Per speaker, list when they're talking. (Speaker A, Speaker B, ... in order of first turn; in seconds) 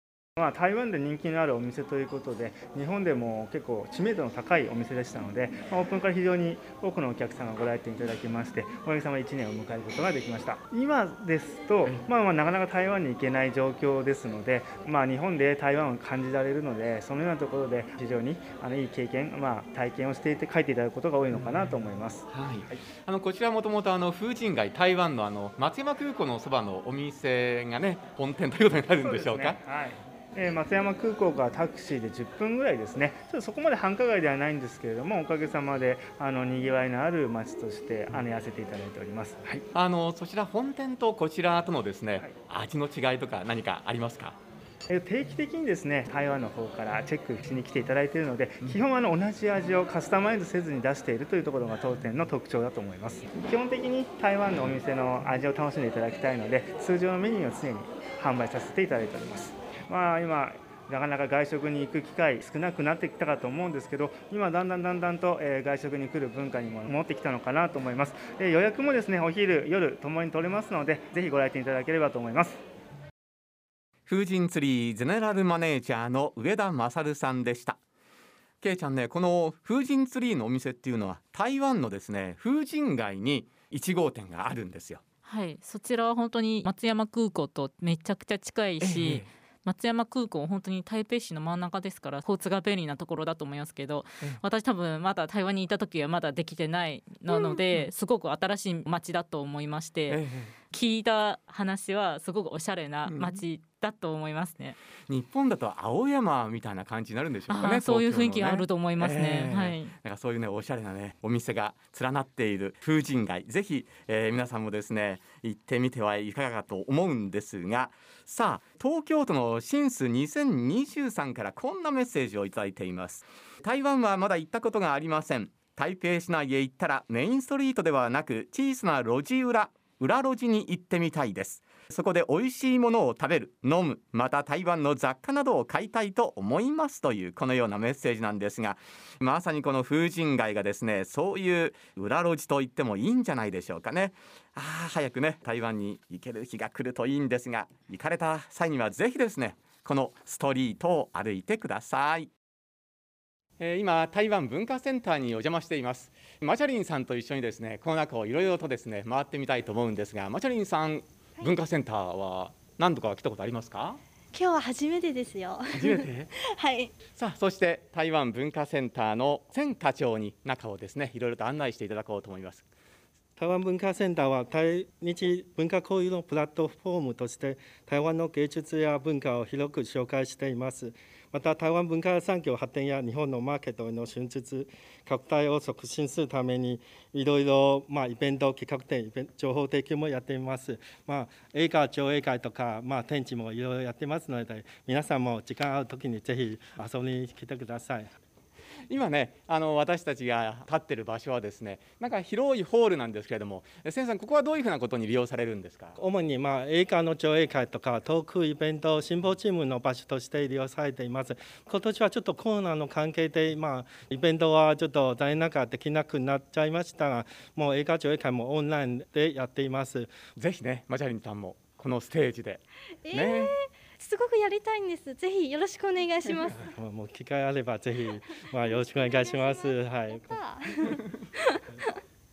Speaker A: 0.4-22.8, 29.0-39.6, 44.9-72.6
Speaker B: 21.3-21.7, 22.3-29.6, 39.7-44.4, 74.1-77.8, 78.6-85.0, 88.8-89.3, 97.3-97.9, 100.1-100.5, 103.1-103.4, 105.1-152.3, 153.6-164.0, 165.8-166.3, 167.2-172.7, 198.9-206.0, 220.4-223.5
Speaker C: 85.3-100.2, 100.7-104.8, 107.5-109.9
Speaker D: 164.3-166.9, 223.0-226.7, 228.9-231.9
Speaker E: 173.4-198.1, 206.0-220.1, 226.6-230.9